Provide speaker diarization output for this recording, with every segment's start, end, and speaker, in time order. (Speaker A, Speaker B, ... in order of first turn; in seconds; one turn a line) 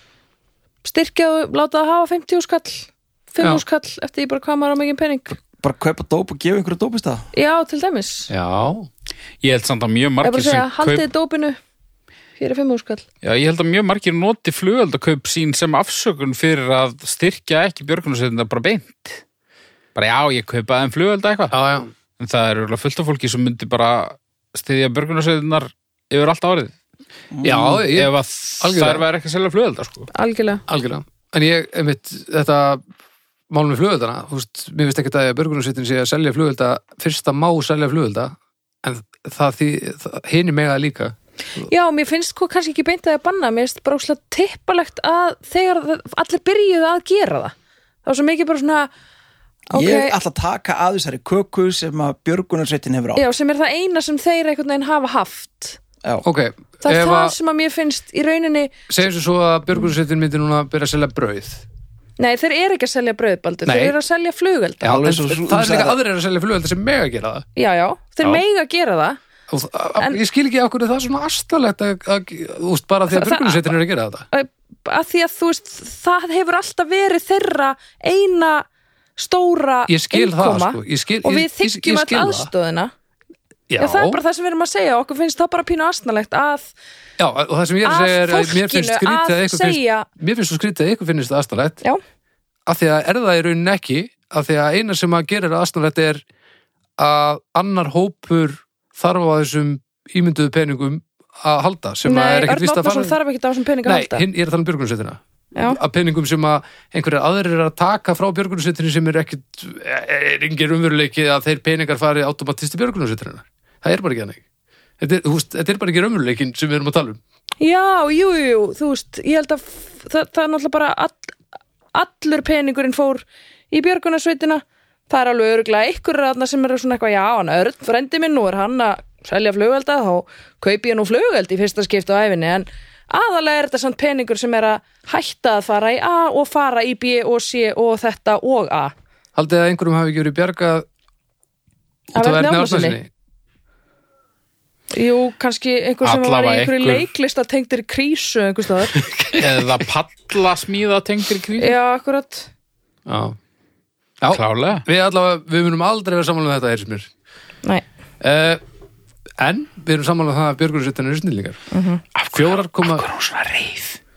Speaker A: 0.8-5.4
Speaker B: 5.6-7.2
Speaker A: 7.3-8.3
Speaker C: 8.3-8.9
Speaker D: 9.4-11.0
Speaker A: 10.2-11.6
Speaker A: 12.4-13.0
Speaker D: 13.2-19.2
Speaker D: 19.9-21.5
Speaker C: 21.5-21.9
Speaker D: 22.2-26.7
Speaker B: 27.3-27.8
Speaker C: 27.4-29.0
Speaker D: 27.9-30.1
Speaker A: 30.1-30.6
Speaker C: 30.7-32.8
Speaker C: 33.5-41.6
Speaker A: 41.6-48.9
Speaker A: 49.7-50.1
Speaker B: 49.7-53.2
Speaker A: 53.1-55.8
Speaker C: 56.2-57.4
Speaker A: 56.8-58.8
Speaker C: 58.9-61.6
Speaker A: 62.2-64.9
Speaker C: 63.6-64.0
Speaker C: 64.8-67.5
Speaker B: 64.8-66.0
Speaker A: 67.5-69.2
Speaker C: 69.5-74.2
Speaker A: 73.1-73.7
Speaker A: 74.3-82.9
Speaker C: 79.9-82.5
Speaker C: 83.7-84.2
Speaker A: 83.8-86.7
Speaker C: 87.2-91.8
Speaker A: 87.8-90.1
Speaker C: 92.7-96.2
Speaker C: 97.0-103.2
Speaker A: 102.0-104.2
Speaker C: 103.8-114.4
Speaker C: 115.0-117.2
Speaker A: 117.6-121.3
Speaker A: 121.9-138.9
Speaker C: 139.3-140.8
Speaker C: 142.1-143.1
Speaker A: 142.1-143.0
Speaker A: 144.9-148.9
Speaker D: 146.0-147.1
Speaker C: 149.0-149.7
Speaker D: 149.3-151.8
Speaker A: 151.6-152.5
Speaker C: 153.1-153.4
Speaker C: 154.2-157.1
Speaker D: 154.3-154.8
Speaker C: 158.2-158.6
Speaker C: 159.4-161.6
Speaker A: 161.7-162.0
Speaker D: 162.2-164.0
Speaker C: 162.3-163.0